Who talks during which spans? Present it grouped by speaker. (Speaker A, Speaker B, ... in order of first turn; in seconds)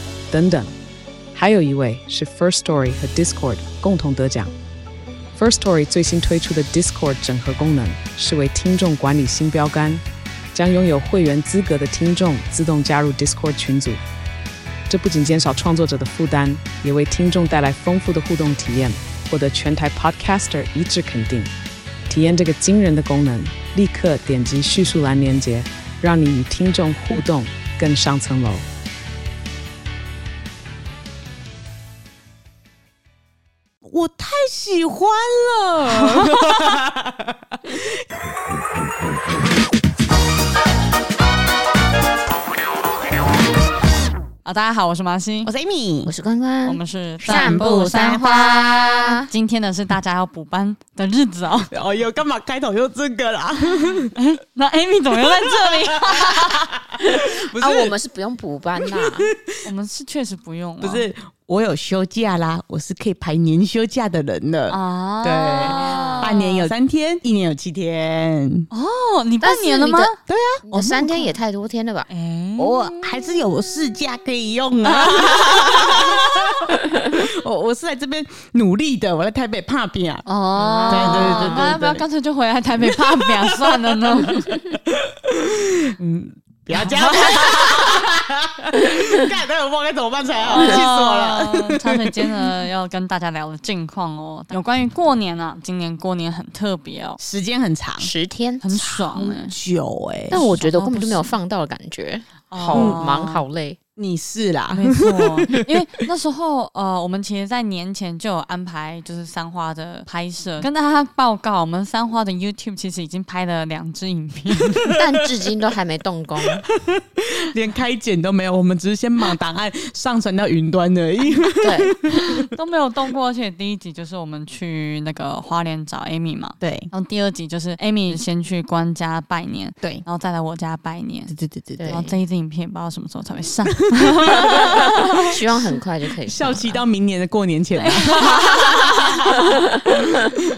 Speaker A: 0.3-0.7, 1.3-4.5, 5.3-14.0, 14.9-21.5, 22.1-28.6
Speaker B: 33.8-38.0, 45.4-46.1, 47.2-49.2, 51.7-54.1, 55.1-58.0, 58.8-59.6, 60.8-68.7, 70.3-71.2, 72.6-80.2, 80.9-81.9, 82.8-92.4, 97.2-98.1, 98.7-100.5, 102.7-103.0, 104.0-105.7, 114.8-115.2, 116.4-122.5, 126.6-126.9, 131.3-132.0, 133.9-135.4, 136.2-140.3
Speaker C: 36.0-36.5, 44.4-45.5, 46.6-48.2, 49.3-51.7, 54.1-56.7, 59.6-61.0, 64.7-66.7, 68.7-70.2, 72.1-72.9, 74.9-76.5, 80.2-84.6, 86.7-87.6, 90.5-97.2, 98.6-99.5, 100.3-101.3, 102.5-103.4, 104.7-114.9, 122.1-131.3, 131.9-135.3, 137.8-138.6, 139.2-139.5
Speaker D: 46.0-49.3, 57.0-59.3, 65.6-66.3, 69.4-70.1, 70.7-72.1, 76.9-77.2, 80.5-82.0, 98.0-98.6, 100.3-103.8, 114.9-116.6, 121.6-121.9, 131.8-132.1, 134.6-136.8